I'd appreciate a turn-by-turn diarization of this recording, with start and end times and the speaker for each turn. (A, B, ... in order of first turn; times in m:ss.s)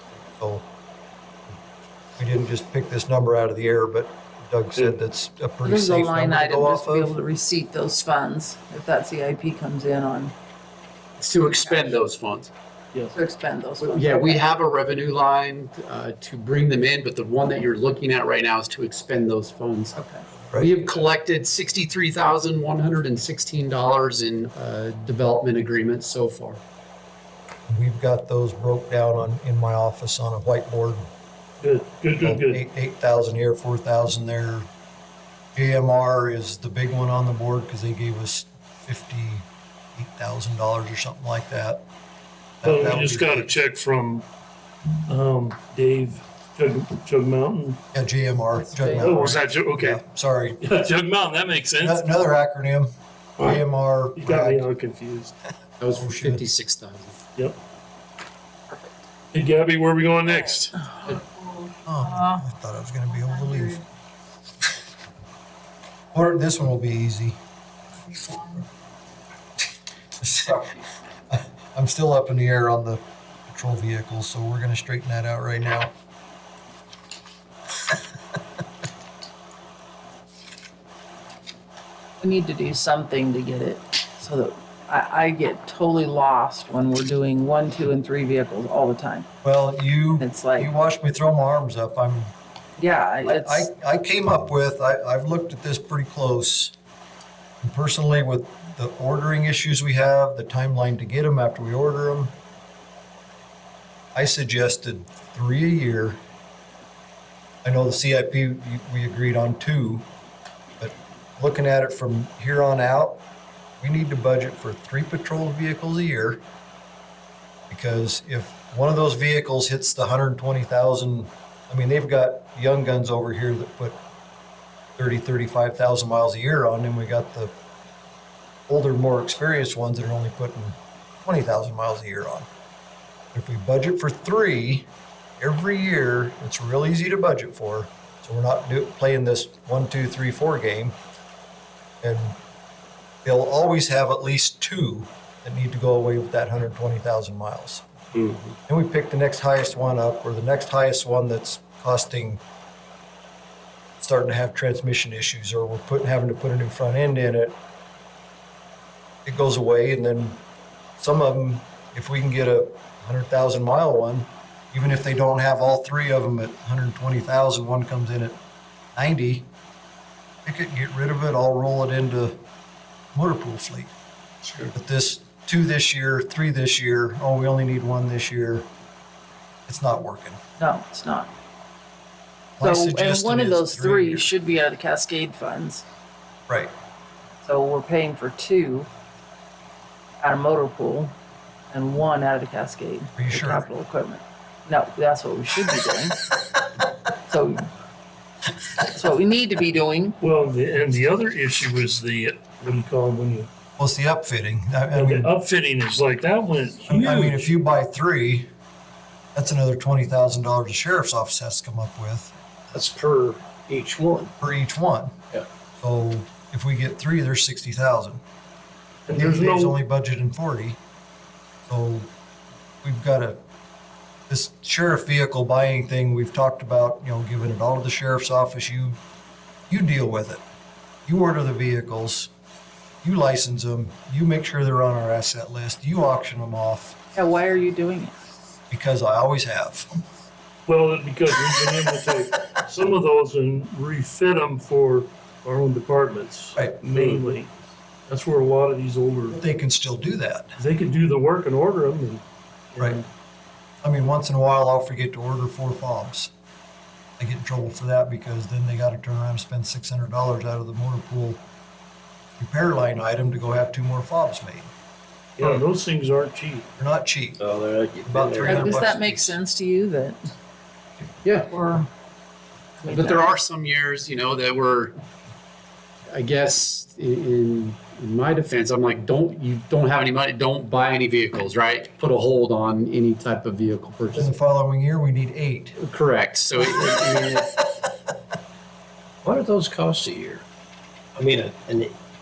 0:00.3-0:00.6 A
0:02.2-0:07.1 A
0:05.6-0:10.3 B
0:11.2-0:12.5 C
0:11.6-0:12.0 B
0:13.1-0:14.5 B
0:13.8-0:20.0 C
0:19.9-0:20.4 B
0:20.5-0:26.6 C
0:27.7-0:31.1 A
0:31.6-0:32.6 D
0:32.2-0:34.7 A
0:35.5-0:41.8 A
0:42.6-0:43.5 A
0:42.6-0:44.2 D
0:45.1-0:47.8 D
0:47.9-0:50.6 A
0:48.5-0:49.4 B
0:49.0-0:50.0 D
0:50.6-0:52.0 D
0:51.8-0:54.6 A
0:54.2-0:55.3 D
0:55.8-0:57.2 C
0:55.9-0:56.4 A
0:59.3-1:00.8 D
1:00.9-1:01.3 B
1:01.8-1:03.8 A
1:06.1-1:07.4 A
1:10.2-1:10.7 A
1:11.3-1:15.9 A
1:22.2-1:29.3 B
1:29.4-1:32.3 A
1:30.2-1:30.7 B
1:32.8-1:33.7 B
1:33.2-1:36.7 A
1:37.6-1:42.3 A
1:44.1-1:46.2 A
1:47.6-1:50.1 A
1:50.8-1:53.2 A
1:53.8-1:56.4 A
1:57.7-2:04.0 A
2:05.0-2:07.5 A
2:08.7-2:12.5 A
2:13.3-2:14.9 A
2:15.4-2:21.0 A
2:22.0-2:22.4 A
2:23.2-2:27.8 A
2:28.1-2:28.5 E
2:28.7-2:32.4 A
2:34.0-2:37.6 A
2:39.2-2:40.4 A
2:41.0-2:48.4 A
2:48.9-2:49.5 A
2:50.4-2:52.4 A
2:53.1-2:53.9 A
2:54.7-2:58.7 A
2:59.7-3:00.4 A
3:00.6-3:01.3 B
3:02.6-3:04.3 A
3:02.6-3:05.8 B
3:07.4-3:08.9 B
3:10.2-3:11.1 B
3:11.7-3:16.2 B
3:13.2-3:13.6 A
3:17.2-3:17.7 B
3:18.8-3:20.2 B
3:20.2-3:23.5 D
3:23.8-3:25.3 A
3:24.9-3:27.5 D
3:26.9-3:28.5 A
3:29.3-3:32.3 A
3:32.7-3:34.3 E
3:34.4-3:35.2 A
3:35.8-3:38.2 A
3:39.1-3:39.8 D
3:39.1-3:40.8 A
3:41.7-3:42.1 A
3:42.8-3:43.4 A
3:44.3-3:49.0 A
3:49.7-3:50.4 A
3:51.0-3:52.3 A
3:53.0-3:57.0 A
3:57.1-3:58.2 B
3:58.7-3:59.9 A
4:00.7-4:07.5 D
4:06.6-4:07.2 A
4:08.1-4:09.4 D
4:09.3-4:10.6 A
4:10.6-4:12.2 D
4:12.7-4:13.0 D
4:13.8-4:16.3 A
4:17.2-4:21.4 A
4:22.4-4:24.7 A
4:25.4-4:26.7 D
4:26.8-4:27.4 A
4:27.4-4:28.8 E
4:28.0-4:29.4 A
4:28.4-4:30.2 B
4:31.4-4:31.9 B
4:32.8-4:33.3 B
4:32.8-4:34.9 C
4:36.1-4:44.3 C
4:44.1-4:45.8 A
4:45.8-4:47.6 C
4:49.2-4:50.4 E
4:51.2-4:51.9 E